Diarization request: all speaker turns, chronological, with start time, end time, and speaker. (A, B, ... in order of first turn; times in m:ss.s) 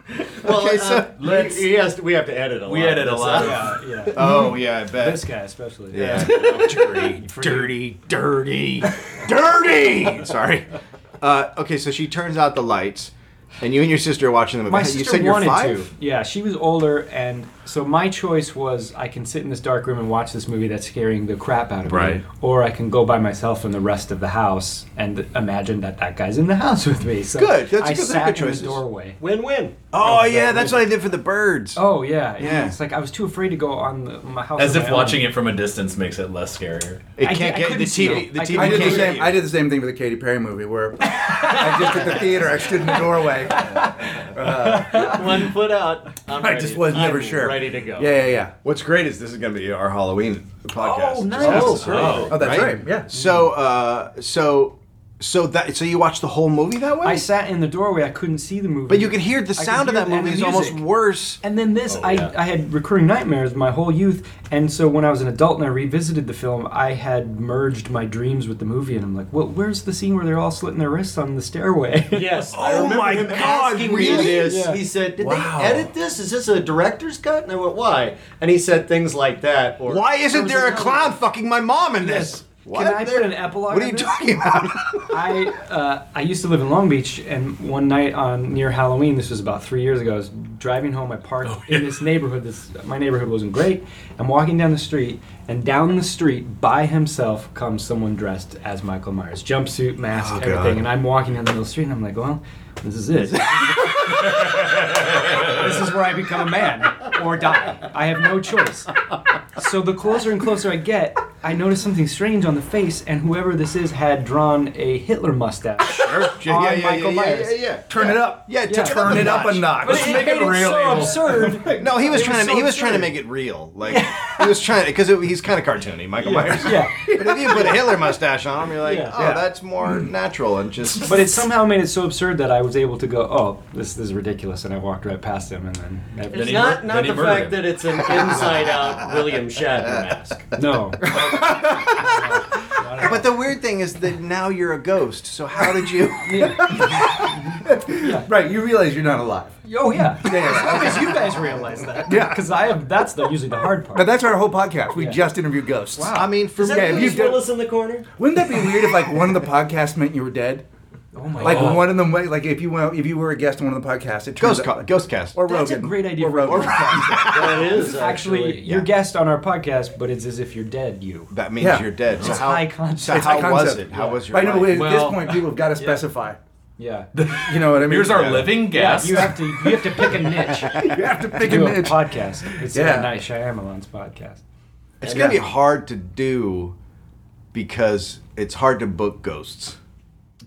0:00.3-0:03.7 A
0:00.4-0:01.6 B
0:01.2-0:01.5 C
0:02.6-0:03.8 C
0:03.3-0:06.5 D
0:04.1-0:05.2 B
0:05.9-0:15.9 B
0:06.0-0:06.9 A
0:07.2-0:07.7 D
0:14.7-0:29.2 D
0:21.8-0:22.2 B
0:27.3-0:28.8 B
0:29.2-0:29.8 A
0:29.9-0:31.8 B
0:30.0-0:30.9 D
0:31.8-0:35.3 D
0:32.4-0:32.8 B
0:34.6-0:37.1 C
0:37.2-0:39.4 B
0:37.2-0:39.2 D
0:38.5-0:45.4 E
0:41.0-0:42.3 D
0:43.5-0:45.3 D
0:44.9-0:48.2 A
0:46.4-0:48.5 E
0:48.6-0:57.2 B
0:50.8-0:52.8 D
0:51.4-0:52.4 A
0:51.8-0:52.4 C
0:52.3-0:53.1 E
0:57.0-1:00.8 D
0:58.9-1:01.4 B
1:01.4-1:12.5 D
1:01.9-1:02.3 A
1:12.1-1:21.0 A
1:12.5-1:15.9 B
1:14.1-1:14.8 D
1:15.2-1:15.8 E
1:19.9-1:25.3 B
1:20.3-1:21.0 D
1:22.0-1:24.5 D
1:25.0-1:44.4 D
1:31.4-1:32.0 C
1:40.1-1:40.8 B
1:45.3-1:48.9 D
1:49.6-1:57.6 D
1:55.9-2:00.2 B
1:57.9-2:01.1 E
1:58.6-2:03.1 D
2:00.0-2:01.3 C
2:01.6-2:11.5 B
2:03.8-2:04.6 D
2:06.2-2:07.9 D
2:07.3-2:07.7 E
2:08.8-2:09.3 D
2:09.1-2:10.1 E
2:11.0-2:16.8 D
2:16.3-2:17.8 C
2:16.3-2:20.5 A
2:20.6-2:21.3 D
2:21.1-2:21.4 B
2:21.1-2:22.1 E
2:21.9-2:23.3 D
2:22.9-2:26.6 B
2:26.2-2:28.3 D
2:26.3-2:31.4 E
2:29.6-2:34.2 D
2:32.0-2:32.6 E
2:33.9-2:37.5 E
2:34.9-2:35.2 D
2:36.0-2:36.3 D
2:36.1-2:37.3 B
2:36.5-2:38.1 A
2:38.2-2:40.6 E
2:41.1-2:41.9 D
2:41.4-2:41.9 C
2:41.4-2:47.5 E
2:44.4-2:45.5 B
2:45.4-2:51.3 D
2:46.4-2:47.9 B
2:47.2-2:48.9 A
2:51.3-2:54.9 B
2:51.6-2:51.9 E
2:52.1-2:54.2 D
2:53.0-2:56.4 E
2:54.7-2:55.4 C
2:55.8-2:56.0 D
2:56.8-2:57.1 D
2:57.1-2:59.4 C
2:57.3-2:58.6 E
2:58.1-2:58.5 B
2:58.7-3:00.8 D
3:00.5-3:01.0 B
3:00.6-3:02.1 E
3:01.4-3:04.4 D
3:02.7-3:03.1 E
3:05.0-3:06.8 B
3:05.0-3:05.4 A
3:05.0-3:05.4 E
3:07.5-3:09.8 B